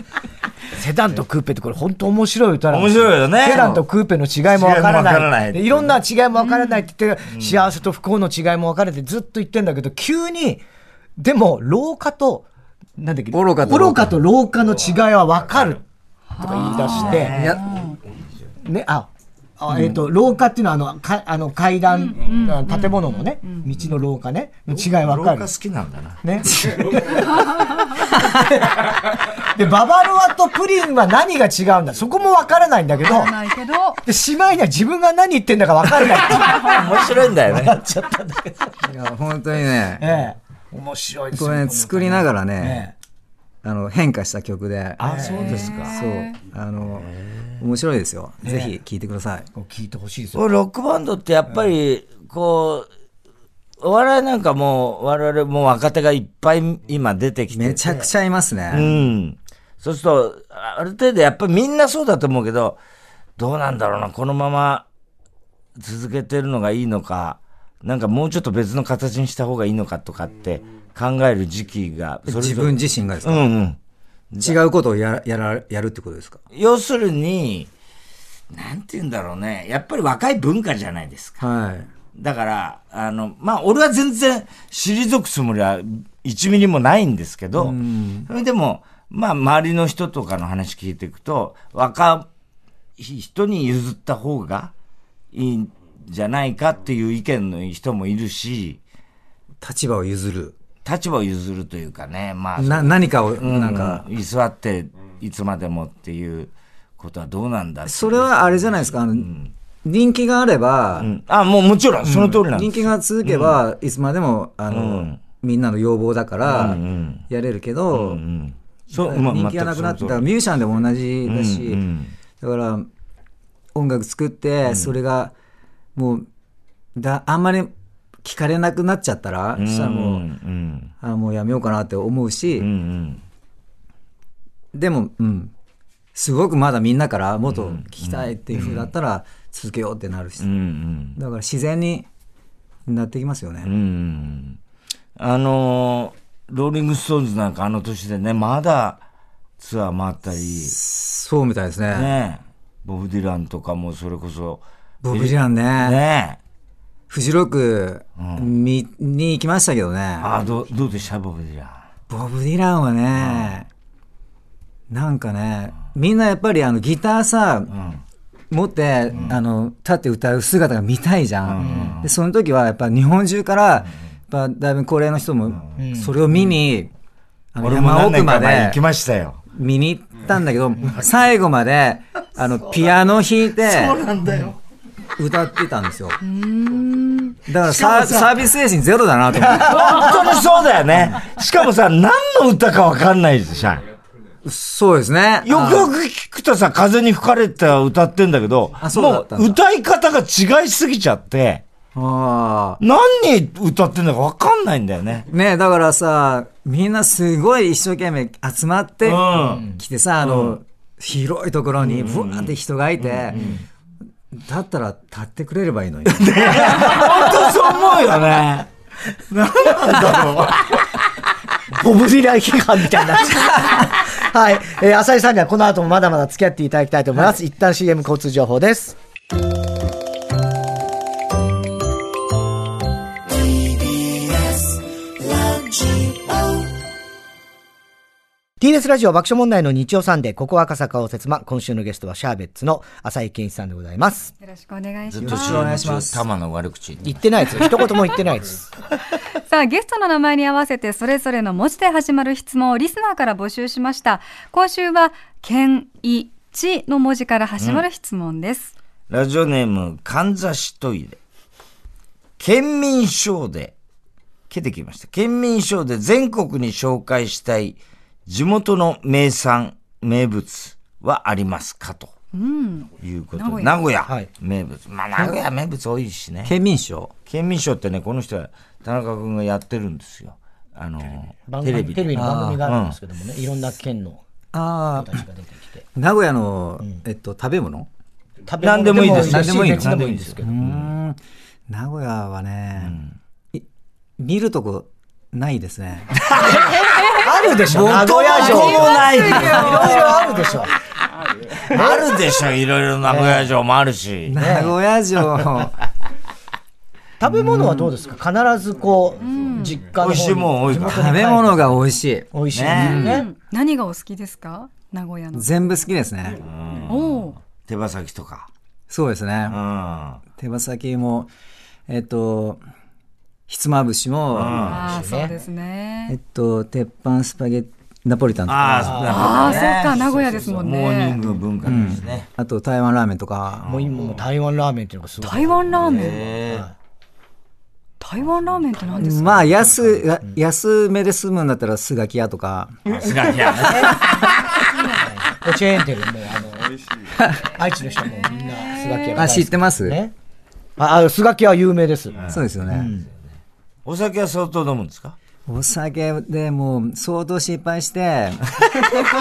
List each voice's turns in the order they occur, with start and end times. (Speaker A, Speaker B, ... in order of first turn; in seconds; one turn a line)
Speaker A: 0.7-10.6
Speaker B: 2.7-3.8
Speaker C: 3.5-3.8
Speaker B: 4.5-6.0
Speaker D: 6.4-6.8
Speaker B: 7.3-7.7
Speaker A: 11.2-12.4
Speaker A: 13.0-15.8
Speaker C: 13.3-14.2
Speaker D: 16.4-17.9
Speaker A: 16.4-17.3
Speaker B: 16.9-17.8
Speaker C: 17.3-17.6
Speaker A: 18.6-25.5
Speaker C: 19.7-20.0
Speaker D: 21.9-23.6
Speaker B: 24.7-26.2
Speaker A: 26.2-33.4
Speaker C: 26.7-27.0
Speaker D: 33.0-34.0
Speaker A: 34.0-38.8
Speaker B: 36.3-37.8
Speaker C: 38.8-40.1
Speaker A: 40.0-42.9
Speaker C: 41.3-42.9
Speaker C: 43.6-49.5
Speaker B: 45.0-46.0
Speaker A: 45.0-45.4
Speaker D: 45.3-46.3
Speaker B: 47.1-47.5
Speaker A: 48.4-48.8
Speaker A: 49.5-50.4
Speaker B: 50.3-52.9
Speaker B: 53.8-58.1
Speaker C: 57.5-58.9
Speaker B: 58.7-62.8
Speaker B: 63.4-64.9
Speaker B: 65.8-73.8
Speaker C: 72.3-73.5
Speaker B: 74.3-74.6
Speaker C: 74.4-76.4
Speaker B: 76.5-77.7
Speaker B: 78.5-81.4
Speaker C: 81.4-81.9
Speaker B: 82.1-92.3
Speaker C: 87.6-88.3
Speaker B: 93.0-94.7
Speaker B: 95.3-98.8
Speaker C: 99.6-100.5
Speaker B: 100.8-109.5
Speaker C: 102.6-104.0
Speaker C: 107.9-111.1
Speaker B: 111.0-113.6
Speaker C: 112.0-118.2
Speaker B: 114.7-115.2
Speaker B: 116.4-117.2
Speaker B: 117.9-120.3
Speaker C: 118.9-121.8
Speaker B: 121.3-122.1
Speaker C: 122.4-122.9
Speaker C: 123.8-125.3
Speaker B: 124.7-124.9
Speaker C: 126.0-126.3
Speaker C: 127.0-127.7
Speaker C: 128.2-130.3
Speaker B: 129.6-130.9
Speaker C: 131.0-132.7
Speaker B: 132.6-133.2
Speaker C: 134.7-135.5
Speaker C: 136.2-140.5
Speaker B: 137.5-138.9
Speaker B: 140.4-141.2
Speaker C: 141.2-142.1
Speaker C: 142.9-143.7
Speaker B: 143.6-144.6
Speaker B: 145.2-149.0
Speaker B: 149.6-150.8
Speaker C: 150.5-152.1
Speaker B: 151.9-156.4
Speaker C: 155.0-156.0
Speaker C: 157.1-160.3
Speaker B: 158.2-158.5
Speaker B: 160.2-161.9
Speaker C: 162.1-163.7
Speaker B: 163.2-163.6
Speaker C: 164.9-167.7
Speaker B: 167.7-168.0
Speaker C: 168.5-176.9
Speaker B: 169.1-169.4
Speaker B: 171.4-172.1
Speaker A: 171.6-172.0
Speaker A: 175.8-176.1
Speaker C: 177.5-178.8
Speaker B: 177.6-179.4
Speaker C: 179.5-184.0
Speaker B: 183.6-184.6
Speaker C: 185.2-186.2
Speaker D: 186.2-187.4
Speaker C: 187.5-190.2
Speaker B: 187.6-188.4
Speaker B: 189.4-193.8
Speaker C: 191.0-191.2
Speaker C: 194.4-195.9
Speaker B: 195.4-201.6
Speaker C: 198.8-199.6
Speaker C: 201.9-202.8
Speaker B: 202.8-205.3
Speaker C: 205.3-213.6
Speaker B: 209.0-210.6
Speaker A: 209.5-209.8
Speaker B: 211.8-213.6
Speaker C: 214.3-217.2
Speaker B: 216.1-218.7
Speaker B: 219.3-220.9
Speaker A: 219.8-220.4
Speaker A: 221.7-229.0
Speaker A: 238.6-244.3
Speaker D: 244.4-245.8
Speaker B: 245.1-247.7
Speaker C: 245.2-246.2
Speaker A: 247.1-248.7
Speaker D: 249.5-258.7
Speaker B: 257.6-257.8
Speaker B: 259.1-261.2
Speaker B: 262.4-263.8
Speaker B: 264.5-272.1
Speaker D: 272.3-273.8
Speaker B: 273.0-276.5
Speaker C: 276.4-277.1
Speaker B: 277.3-283.0
Speaker A: 281.5-284.2
Speaker C: 282.1-282.6
Speaker C: 284.5-285.2
Speaker A: 284.9-285.8
Speaker C: 285.9-287.9
Speaker A: 288.5-290.6
Speaker B: 288.6-290.9
Speaker C: 289.1-293.0
Speaker B: 292.8-293.1
Speaker C: 294.2-296.7
Speaker B: 296.2-296.7
Speaker A: 296.4-300.7
Speaker C: 297.6-299.9
Speaker B: 297.9-300.2
Speaker D: 298.3-300.4
Speaker B: 301.6-304.6
Speaker A: 301.7-302.1
Speaker A: 303.1-303.5
Speaker C: 304.3-305.8
Speaker A: 304.4-304.8
Speaker A: 307.2-311.8
Speaker C: 307.3-307.9
Speaker D: 309.2-309.8
Speaker B: 310.0-311.2
Speaker C: 310.9-313.2
Speaker A: 312.3-313.3
Speaker B: 312.5-313.1
Speaker D: 312.7-315.5
Speaker C: 315.3-316.4
Speaker B: 316.4-318.5
Speaker D: 316.9-317.4
Speaker C: 318.9-319.6
Speaker B: 319.5-320.2
Speaker C: 320.4-321.3
Speaker C: 321.9-322.6
Speaker C: 323.5-324.7
Speaker B: 324.3-325.0
Speaker D: 324.5-326.1
Speaker A: 324.7-325.3
Speaker C: 326.1-329.3
Speaker B: 328.5-332.3
Speaker A: 328.9-329.7
Speaker D: 329.1-331.2
Speaker C: 331.6-333.7
Speaker B: 333.6-334.2
Speaker A: 333.7-336.7
Speaker D: 335.2-336.2
Speaker B: 335.8-336.7
Speaker D: 338.0-339.4
Speaker C: 339.0-342.7
Speaker A: 339.2-340.4
Speaker B: 342.9-344.4
Speaker A: 343.6-344.1
Speaker A: 344.8-346.8
Speaker C: 347.1-347.5
Speaker A: 347.4-350.1
Speaker D: 348.0-349.2
Speaker C: 349.2-350.0
Speaker A: 350.8-353.1
Speaker C: 352.3-352.9
Speaker B: 353.9-355.2
Speaker C: 355.5-359.1